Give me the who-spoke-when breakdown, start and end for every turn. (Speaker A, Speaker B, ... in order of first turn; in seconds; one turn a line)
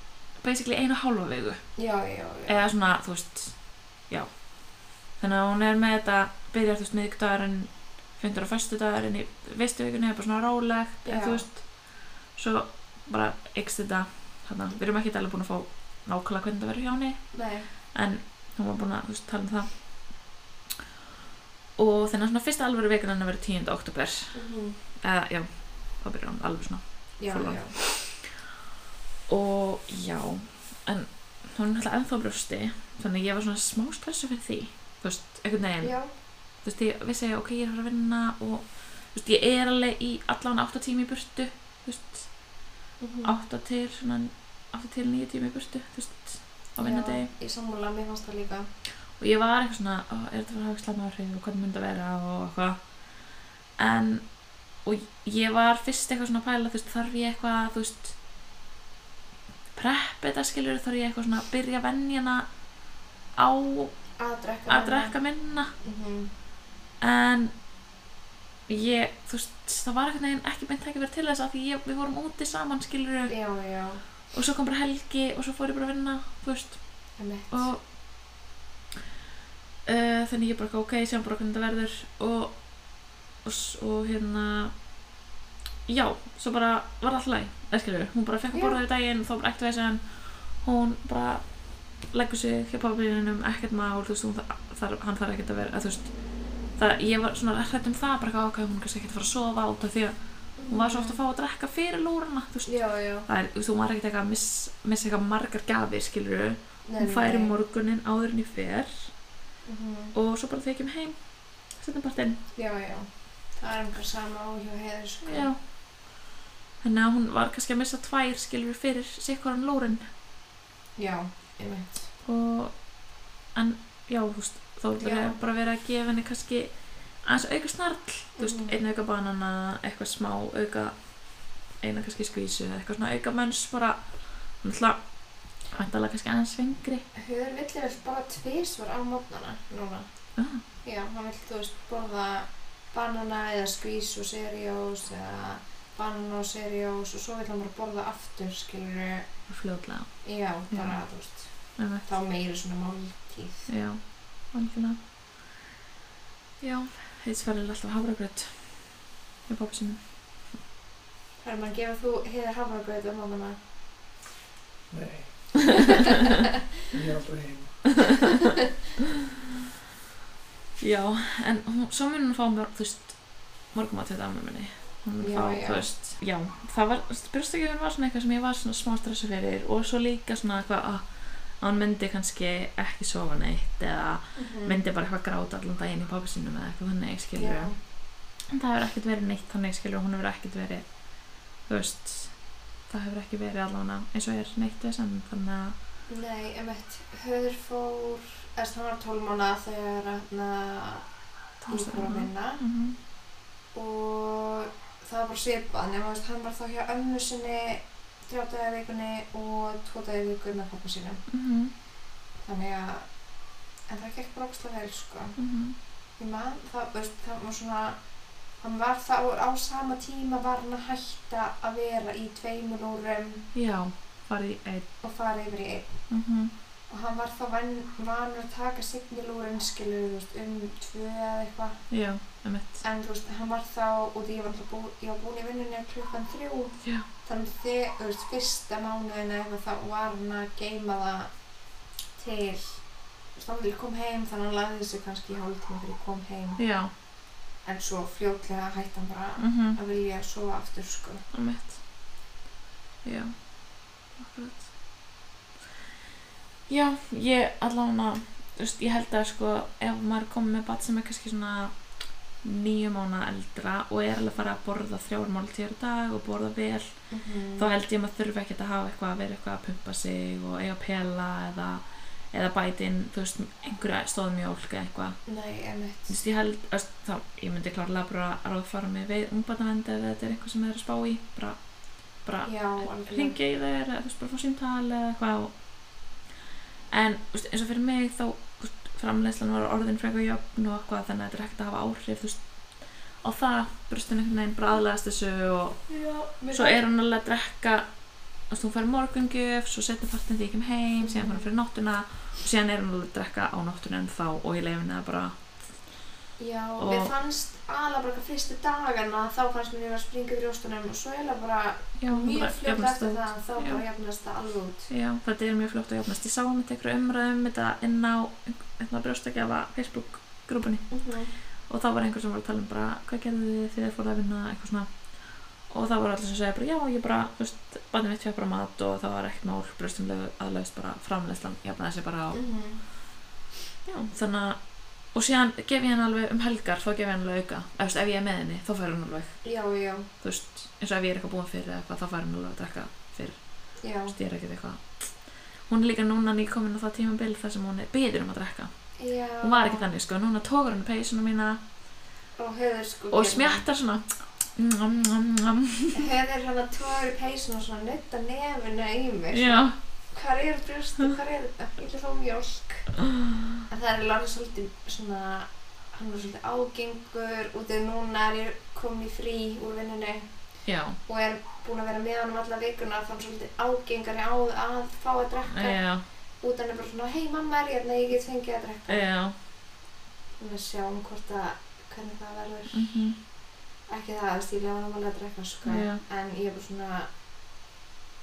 Speaker A: 0.4-1.6
Speaker B: 1.8-2.6
Speaker A: 2.5-3.6
Speaker A: 4.1-4.4
Speaker A: 5.2-11.7
Speaker B: 11.1-11.4
Speaker A: 12.3-19.9
Speaker B: 17.3-17.7
Speaker A: 21.8-24.4
Speaker B: 24.3-24.8
Speaker A: 25.0-28.2
Speaker B: 27.2-27.8
Speaker A: 29.3-35.9
Speaker B: 35.8-36.1
Speaker A: 36.6-42.3
Speaker B: 43.0-43.4
Speaker A: 43.2-47.3
Speaker B: 46.8-48.7
Speaker A: 49.2-52.8
Speaker A: 53.8-54.3
Speaker A: 54.8-58.1
Speaker A: 59.7-62.5
Speaker A: 63.4-64.0
Speaker B: 64.2-65.2
Speaker A: 64.7-65.7
Speaker B: 65.8-66.3
Speaker A: 67.0-67.5
Speaker A: 68.7-73.4
Speaker B: 73.3-74.0
Speaker A: 74.3-76.8
Speaker B: 77.2-77.7
Speaker A: 77.5-77.8
Speaker A: 79.8-82.6
Speaker A: 83.4-84.7
Speaker A: 85.9-91.5
Speaker B: 88.5-88.8
Speaker A: 92.1-96.1
Speaker A: 96.8-100.2
Speaker B: 100.6-101.2
Speaker A: 100.7-102.7
Speaker B: 102.7-103.3
Speaker A: 103.3-109.1
Speaker B: 106.9-107.6
Speaker B: 109.7-110.2
Speaker A: 110.2-111.2
Speaker A: 111.7-112.4
Speaker B: 112.5-115.5
Speaker A: 115.2-115.6
Speaker A: 116.8-120.0
Speaker B: 121.0-122.1
Speaker A: 122.2-122.8
Speaker A: 123.5-126.7
Speaker B: 125.0-125.4
Speaker A: 127.2-131.0
Speaker B: 128.4-128.8
Speaker A: 131.8-135.0
Speaker A: 135.7-137.1
Speaker B: 137.2-140.1
Speaker A: 140.4-140.6
Speaker B: 140.8-149.2
Speaker A: 149.5-150.1
Speaker B: 150.2-153.7
Speaker A: 150.7-151.0
Speaker A: 151.8-152.1
Speaker A: 153.7-155.0
Speaker A: 156.6-158.9
Speaker A: 159.5-160.0
Speaker B: 161.4-163.6
Speaker C: 164.9-166.2
Speaker C: 166.8-168.1
Speaker A: 170.8-187.7
Speaker B: 175.2-175.9
Speaker B: 184.3-184.8
Speaker B: 187.4-187.8
Speaker A: 188.5-190.9
Speaker A: 191.7-192.3
Speaker A: 192.9-195.8
Speaker B: 196.1-201.1
Speaker A: 201.6-203.0
Speaker B: 201.7-202.6
Speaker B: 203.7-211.2
Speaker A: 211.3-211.7
Speaker B: 212.4-213.1
Speaker B: 213.9-215.4
Speaker A: 215.4-215.8
Speaker B: 216.2-218.0
Speaker B: 218.6-223.5
Speaker A: 223.5-224.9
Speaker B: 225.0-225.9
Speaker A: 226.1-226.5
Speaker B: 226.9-231.8
Speaker A: 231.9-232.8
Speaker B: 232.8-241.3
Speaker B: 242.2-242.8
Speaker B: 243.3-246.6
Speaker A: 246.6-246.9
Speaker B: 247.7-251.2
Speaker A: 249.4-249.8
Speaker A: 251.3-251.8
Speaker A: 253.1-253.3
Speaker A: 254.2-254.7
Speaker A: 256.7-261.8
Speaker A: 262.4-266.9
Speaker B: 267.1-267.7
Speaker A: 267.6-275.2
Speaker B: 275.3-276.1
Speaker A: 276.1-281.6
Speaker A: 282.2-285.5
Speaker B: 282.4-283.4
Speaker A: 286.9-292.4
Speaker A: 293.2-295.9
Speaker B: 295.9-296.8
Speaker A: 296.5-297.9
Speaker A: 298.5-305.5
Speaker B: 301.0-301.5
Speaker B: 306.4-314.9
Speaker A: 306.8-307.1
Speaker A: 312.0-313.8
Speaker A: 314.9-320.9
Speaker B: 320.9-321.3
Speaker A: 321.7-325.0
Speaker A: 325.7-332.4
Speaker B: 332.3-332.8
Speaker A: 333.9-334.6
Speaker A: 335.1-339.4
Speaker B: 339.4-340.1
Speaker A: 340.2-343.4
Speaker B: 343.8-344.1
Speaker A: 344.1-345.1
Speaker A: 345.7-348.7
Speaker B: 349.0-349.9
Speaker A: 349.4-351.6
Speaker B: 352.4-353.6
Speaker A: 353.1-356.1
Speaker B: 355.9-362.9
Speaker A: 359.3-359.8
Speaker B: 363.7-370.3
Speaker A: 370.7-371.0
Speaker B: 371.1-375.8
Speaker A: 375.5-376.0
Speaker B: 376.4-379.1
Speaker A: 378.9-379.4
Speaker B: 380.4-382.9
Speaker A: 382.7-383.2
Speaker B: 383.9-387.1
Speaker A: 385.6-386.0